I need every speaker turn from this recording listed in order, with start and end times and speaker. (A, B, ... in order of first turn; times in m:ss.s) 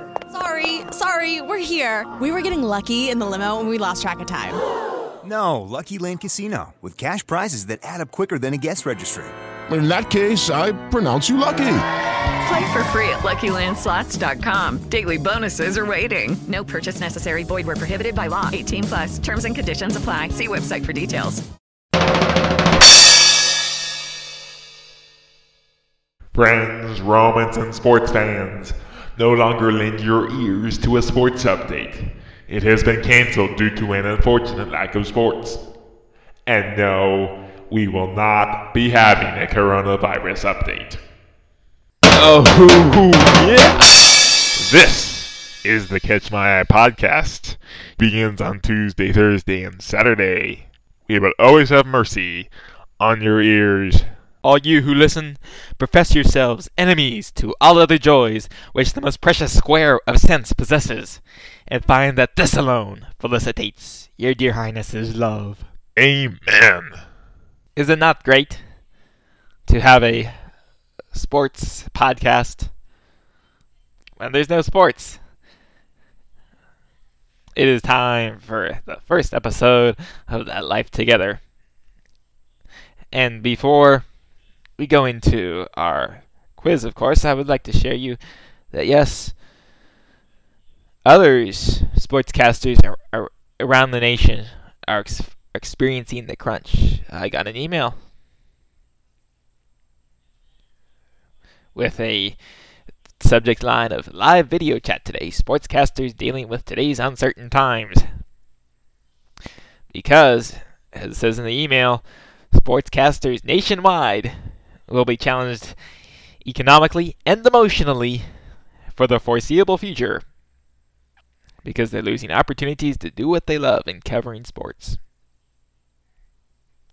0:00.3-0:04.6 A
0:05.2-0:09.4 B
0:09.7-0:11.8 C
0:12.4-0:21.4 D
0:26.3-0:35.6 E
0:36.5-0:41.0 E
0:42.2-0:43.8 F
0:44.6-0:54.1 E
0:54.4-1:05.7 F
1:06.0-1:07.0 E
1:07.8-1:08.6 F
1:09.7-1:10.5 F
1:11.1-1:12.7 F
1:14.2-1:15.2 F
1:17.6-1:21.4 F
1:23.1-1:24.1 F
1:24.8-1:29.4 F
1:31.0-1:38.0 F
1:41.8-1:42.4 F
1:43.2-1:48.1 F
1:49.9-1:55.8 F
1:56.4-1:58.3 F
1:58.9-2:00.2 F
2:01.6-2:05.0 F